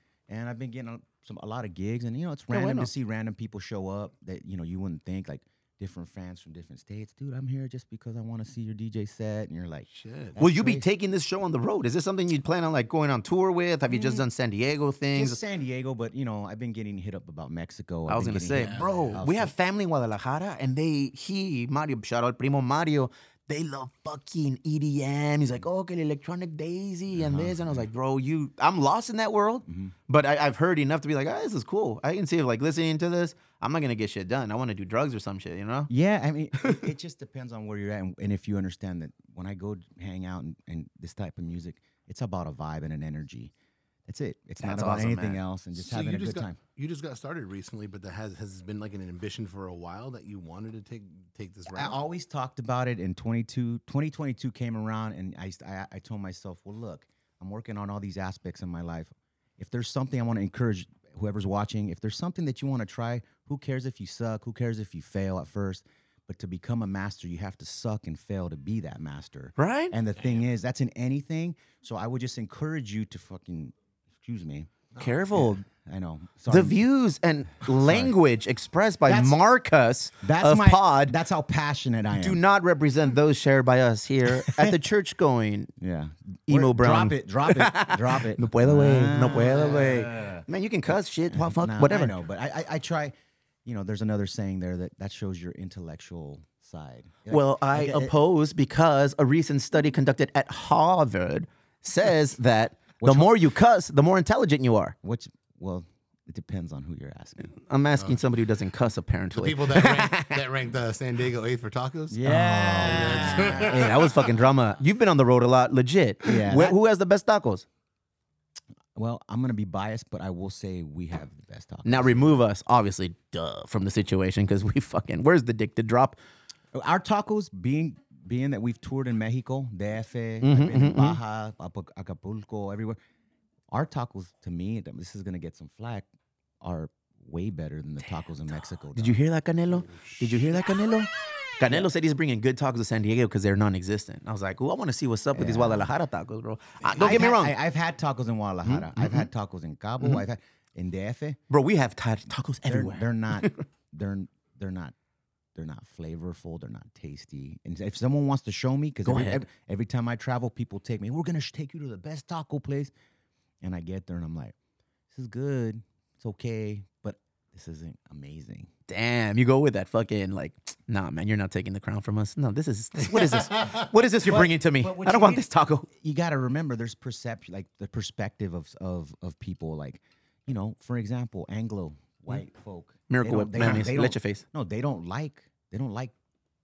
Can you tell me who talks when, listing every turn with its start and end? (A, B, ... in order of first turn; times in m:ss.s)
0:00.3-0:10.9 A
0:02.5-0:02.9 B
0:09.9-0:10.4 C
0:10.4-0:15.4 B
0:13.9-0:14.2 A
0:15.1-0:19.5 A
0:18.1-0:35.9 B
0:18.5-0:19.2 C
0:27.1-0:27.9 A
0:29.7-0:29.9 A
0:35.9-0:43.5 A
0:44.1-0:46.6 A
0:44.6-0:45.4 B
0:45.8-0:52.0 C
0:51.7-1:14.7 A
1:09.6-1:10.0 B
1:10.2-1:10.4 C
1:15.0-1:15.6 B
1:15.3-1:16.8 A
1:16.5-1:21.2 B
1:17.7-1:18.2 A
1:19.1-1:19.4 A
1:20.2-1:22.4 A
1:22.1-1:25.7 B
1:24.4-1:24.8 A
1:25.8-1:30.5 A
1:26.5-1:32.2 B
1:31.3-1:33.1 A
1:33.6-1:38.2 A
1:37.3-1:45.0 B
1:43.0-1:43.4 A
1:45.0-1:47.6 A
1:47.4-1:50.4 B
1:49.3-1:54.2 C
1:52.1-1:54.3 A
1:52.3-1:57.6 B
1:56.2-1:56.8 A
1:59.0-2:02.4 A
2:01.8-2:06.2 B
2:06.7-2:13.0 A
2:10.4-2:11.2 B
2:13.7-2:16.1 A
2:16.6-2:19.2 A
2:18.0-2:27.6 B
2:19.9-2:20.2 C
2:25.3-2:25.9 A
2:26.9-2:31.4 A
2:28.6-2:29.3 B
2:31.5-2:33.6 B
2:32.7-2:34.9 A
2:35.6-2:42.9 A
2:39.0-2:39.5 B
2:43.6-2:44.5 A
2:45.1-2:48.7 A
2:48.9-2:55.9 B
2:53.2-2:53.8 C
2:54.2-3:06.1 A
3:03.1-3:04.4 B